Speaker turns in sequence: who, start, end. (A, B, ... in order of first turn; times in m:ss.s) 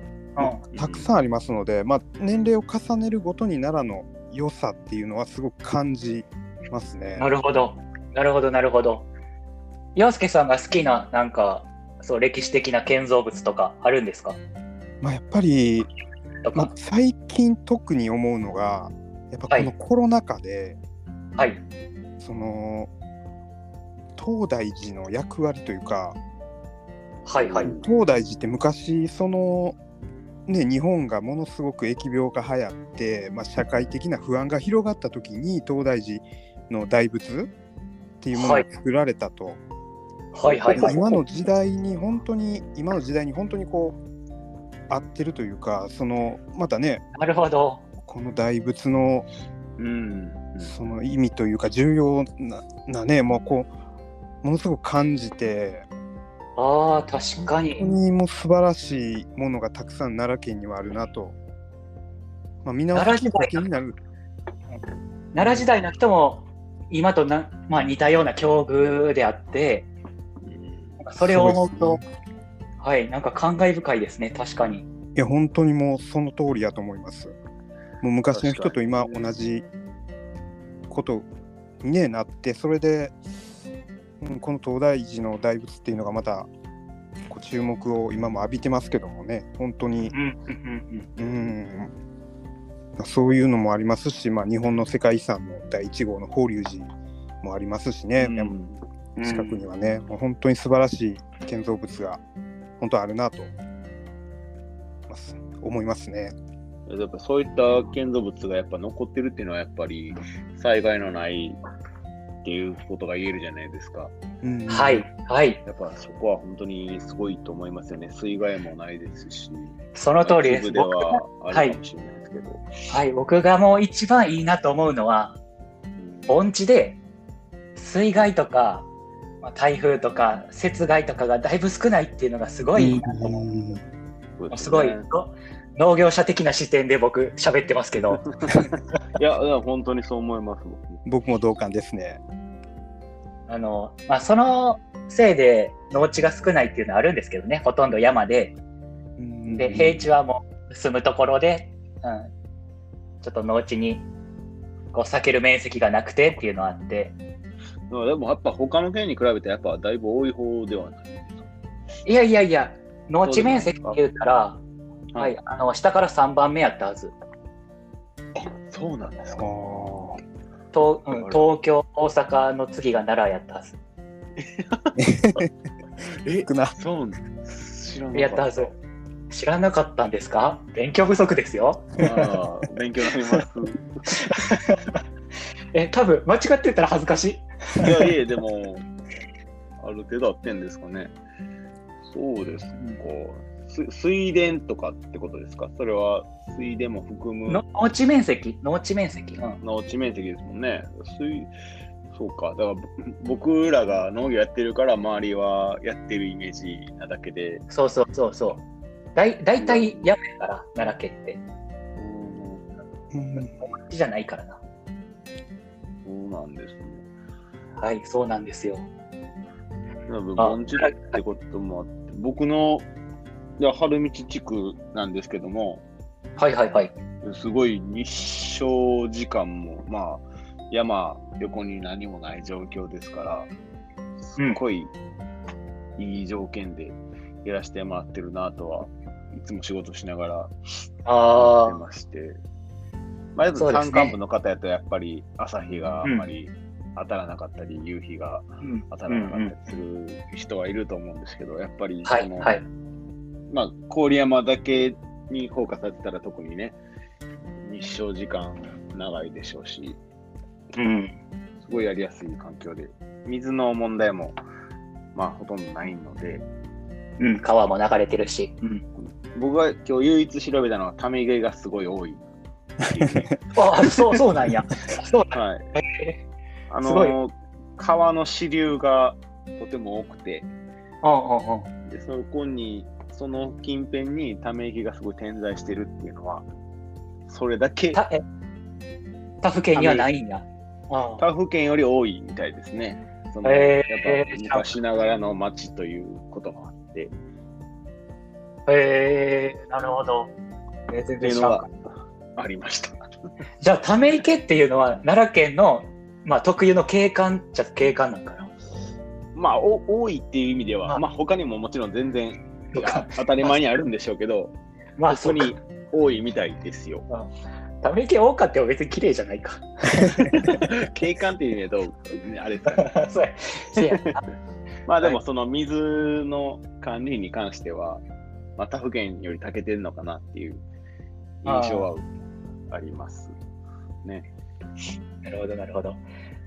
0:00.4-0:00.6 A
0:00.4-0:07.3 B
0:00.7-0:01.1 C
0:07.2-0:09.1 A
0:09.9-0:14.4 A
0:15.0-0:15.9 B
0:16.4-0:16.7 A
0:16.5-0:20.8 B
0:22.2-0:22.9 B
0:24.2-0:26.2 B
0:27.2-0:27.7 A
0:27.4-0:27.9 C
0:27.6-0:29.8 B
0:30.5-0:37.5 B
0:38.2-0:39.6 B
0:38.3-0:38.6 A
0:40.4-0:41.1 A
0:40.4-0:41.2 C
0:40.7-0:44.0 B
0:44.9-0:47.0 B
0:47.2-0:47.8 A
0:48.0-0:49.3 B
0:49.8-0:50.7 C
0:50.6-0:53.7 B
0:54.4-0:55.9 B
0:56.6-0:57.9 A
0:57.8-1:01.4 B
1:02.6-1:04.0 B
1:02.9-1:03.7 A
1:05.3-1:09.9 A
1:05.4-1:05.7 B
1:10.4-1:11.0 C
1:11.0-1:12.0 A
1:11.2-1:12.0 B
1:12.8-1:14.9 A
1:15.1-1:17.4 B
1:18.0-1:19.7 B
1:18.3-1:19.3 C
1:20.9-1:21.2 B
1:21.8-1:23.2 B
1:24.2-1:26.5 B
1:27.3-1:30.1 B
1:30.1-1:31.1 A
1:31.2-1:31.9 B
1:33.0-1:38.5 B
1:38.2-1:38.8 C
1:39.2-1:39.6 A
1:39.2-1:42.2 B
1:42.8-1:43.5 B
1:45.1-1:46.3 B
1:46.9-1:51.6 C
1:52.4-1:54.1 C
1:54.4-1:55.0 B
1:54.7-1:55.6 A
1:55.6-2:02.6 C
1:59.9-2:01.8 A
2:02.9-2:05.4 A
2:06.0-2:06.4 C
2:06.3-2:07.0 A
2:07.8-2:08.9 A
2:09.4-2:13.5 A
2:12.8-2:13.8 B
2:14.4-2:15.1 C
2:14.5-2:18.9 A
2:18.4-2:21.0 C
2:21.0-2:22.2 B
2:23.5-2:28.5 A
2:29.2-2:30.1 B
2:29.5-2:32.3 A
2:33.2-2:34.1 A
2:34.9-2:37.2 A
2:37.9-2:41.5 C
2:42.0-2:44.6 A
2:43.2-2:44.0 C
2:45.1-2:47.1 A
2:48.4-2:49.4 C
2:49.4-2:50.2 B
2:50.7-2:53.8 A
2:51.0-2:51.6 C
2:54.4-2:55.0 C
2:55.0-2:55.5 B
2:56.2-2:58.7 C
2:56.4-2:56.8 B
2:58.1-2:58.7 A
2:59.3-3:02.1 A
3:02.0-3:04.1 C
3:04.2-3:05.0 A
3:05.7-3:08.0 A
3:07.8-3:08.8 C
3:09.8-3:11.1 C
3:12.0-3:17.6 C
3:17.5-3:19.6 A
3:19.6-3:21.5 C
3:22.1-3:27.6 C
3:27.7-3:28.6 A
3:29.1-3:31.4 A
3:29.6-3:30.1 C
3:32.0-3:32.6 C
3:33.1-3:33.6 B
3:33.3-3:34.6 A
3:36.0-3:37.0 C
3:37.8-3:38.8 A
3:40.1-3:42.8 C
3:40.4-3:41.2 A
3:43.6-3:45.8 C
3:46.4-3:46.9 A
3:47.2-3:53.5 C
3:54.2-3:54.9 C
3:56.0-4:00.5 C
4:01.0-4:01.8 A
4:01.3-4:02.4 C
4:03.4-4:12.6 C
4:03.6-4:04.2 A
4:06.0-4:06.3 A
4:08.6-4:09.5 A
4:12.0-4:12.6 A
4:13.5-4:16.8 C
4:17.6-4:20.0 C
4:20.7-4:21.2 A
4:21.6-4:24.4 C
4:25.1-4:26.4 C
4:27.2-4:28.8 A
4:29.0-4:32.2 C
4:32.8-4:33.4 C
4:33.0-4:33.3 B
4:33.5-4:36.2 A
4:35.3-4:35.6 C
4:36.7-4:40.5 C
4:36.8-4:37.2 A
4:41.0-4:41.6 A
4:41.9-4:46.5 C
4:47.3-4:48.0 C
4:47.9-4:48.2 A
4:49.4-4:51.2 A
4:49.7-4:50.1 C
4:51.2-4:57.1 C
4:53.4-4:54.7 A
4:58.7-5:00.3 A
5:00.9-5:01.7 A
5:01.2-5:01.7 C
5:02.4-5:03.0 C
5:03.6-5:08.5 A
5:09.3-5:14.5 C
5:12.7-5:13.6 A
5:15.0-5:15.6 A
5:15.1-5:17.1 C
5:17.8-5:20.6 A
5:20.4-5:22.9 C
5:22.7-5:24.2 A
5:23.8-5:24.1 C
5:24.9-5:28.0 C
5:28.6-5:30.6 C
5:31.4-5:32.1 C
5:31.4-5:31.9 A
5:32.7-5:33.3 C
5:34.0-5:34.3 C
5:35.2-5:36.0 A